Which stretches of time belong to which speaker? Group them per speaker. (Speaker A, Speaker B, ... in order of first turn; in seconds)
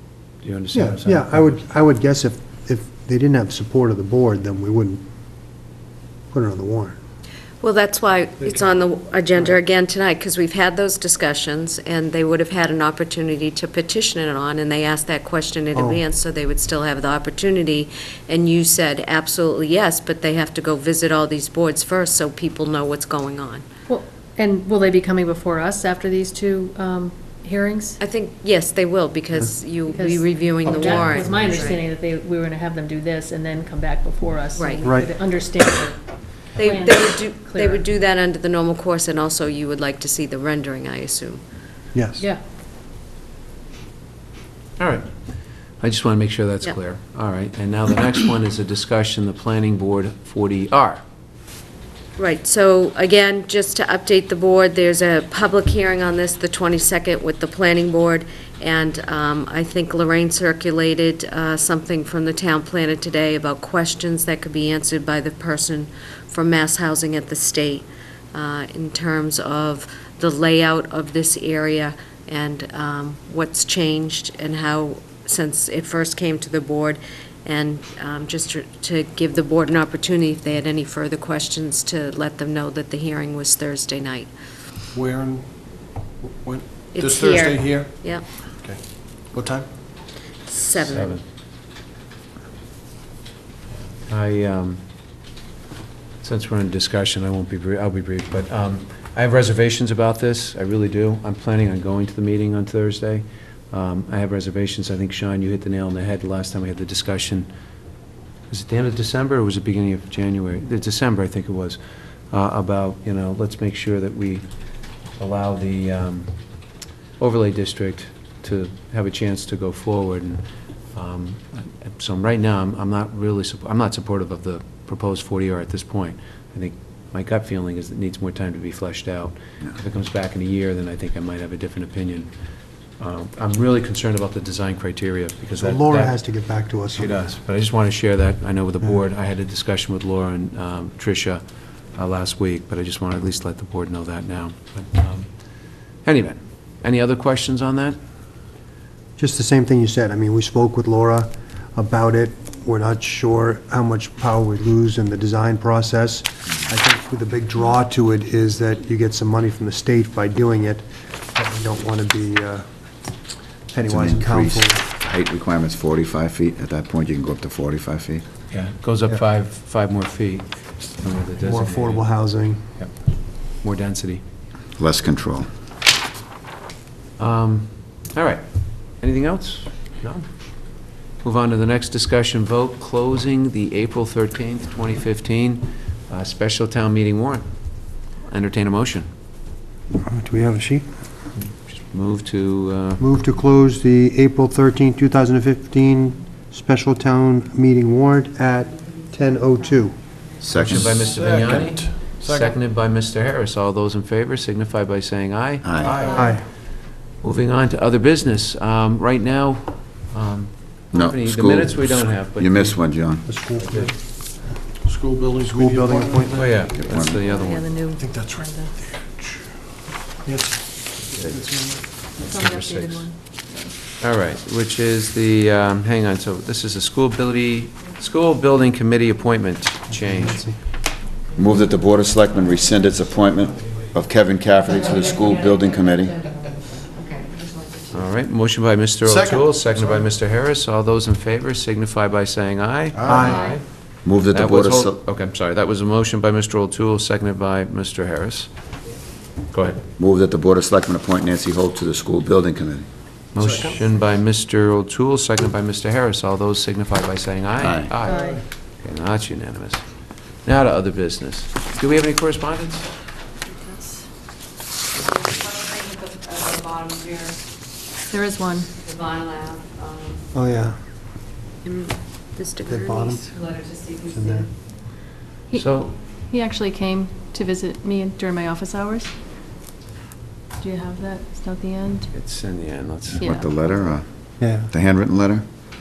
Speaker A: 0.4-1.6, 44.8-51.0, 90.8-91.2, 94.0-94.8, 96.2-107.5, 108.5-111.8, 112.3-132.3, 133.0-136.2, 136.9-141.4, 141.9-145.3, 146.0-148.0, 168.5-172.1, 172.8-174.2, 177.2-189.1, 191.3-193.1, 200.6-212.8, 213.6-213.9, 216.3-217.7, 221.9-223.5, 224.0-230.6, 237.9-248.7, 249.5-249.8, 253.3-262.9, 275.6-276.0, 282.1-283.3
Speaker B: 0.7-5.0, 6.3-7.0, 15.7-16.0, 34.8-35.1, 41.9-42.2, 135.6-137.3, 149.2-162.7, 163.7-164.8, 171.4-172.7, 190.0-190.9, 193.0-200.2, 206.1-206.4, 213.3-213.9, 215.4-216.6, 229.9-230.7, 243.1-243.4, 270.3-270.8, 272.7-273.5, 274.1-274.5, 284.4-284.7
Speaker C: 7.6-23.6, 28.0-31.8, 34.5-34.8, 36.5-41.4, 52.2-84.3, 86.9-88.2, 90.5-91.2, 235.2-236.4, 236.9-237.9, 243.3-243.6, 265.1-267.4, 268.8-270.2, 271.6-274.1
Speaker D: 23.9-28.0, 29.9-37.8, 217.1-218.8, 222.2-223.8, 258.0-258.4, 263.5-264.1, 268.1-268.7, 275.5-279.1, 280.6-282.1, 283.2-283.9
Speaker E: 84.9-89.7, 200.7-202.6, 205.8-206.2, 214.8-217.1, 217.9-222.1, 239.0-240.1, 243.0-243.4, 253.4-253.9, 258.1-258.4
Speaker F: 163.9-168.3, 174.8-175.5, 200.4-201.0, 205.6-205.9, 210.9-213.3, 216.7-217.2, 231.3-236.2, 244.0-245.0, 250.0-252.9, 257.6-258.0, 283.2-285.4